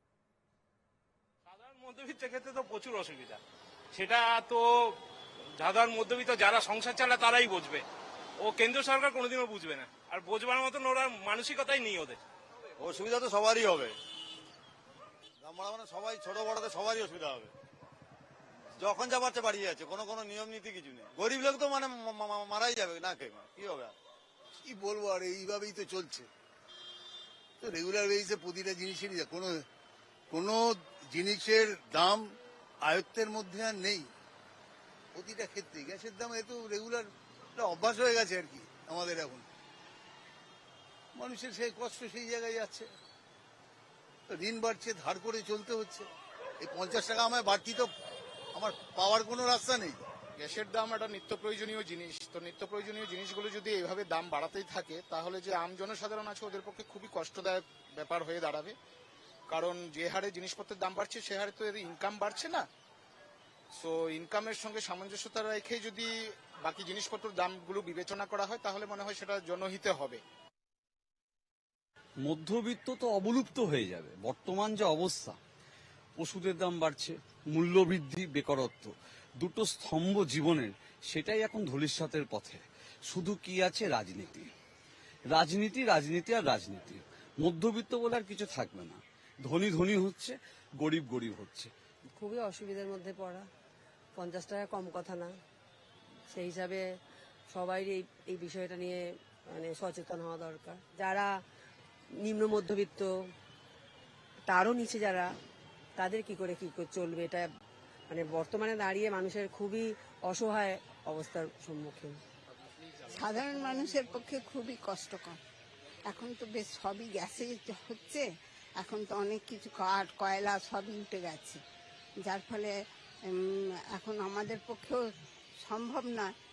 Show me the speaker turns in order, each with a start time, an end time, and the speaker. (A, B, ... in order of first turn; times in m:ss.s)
0:01.4-0:03.4 A
0:03.9-0:04.9 A
0:05.6-0:07.8 A
0:08.4-0:12.2 A
0:12.8-0:14.0 B
0:15.4-0:17.5 B
0:18.8-0:23.9 B
0:24.6-0:26.3 C
0:27.6-0:29.6 C
0:30.3-0:30.6 C
0:31.1-0:32.2 C
0:32.8-0:34.1 C
0:35.2-0:39.4 C
0:41.2-0:42.9 C
0:44.3-0:46.1 C
0:46.6-0:47.9 C
0:48.6-0:50.0 C
0:50.4-0:58.7 D
0:59.5-1:02.6 D
1:03.8-1:06.1 D
1:06.6-1:10.2 D
1:12.2-1:15.4 E
1:16.2-1:24.5 E
1:25.3-1:31.7 E
1:32.2-1:33.5 F
1:34.2-1:35.3 F
1:36.3-1:36.8 F
1:37.5-1:41.4 F
1:42.2-1:43.1 F
1:44.5-1:45.3 F
1:46.0-1:47.5 F
1:48.1-1:52.2 F
1:53.1-1:55.4 G
1:56.1-1:58.2 G
1:58.8-2:01.6 G
2:02.2-2:02.7 G
2:03.9-2:05.0 G
2:05.6-2:06.3 G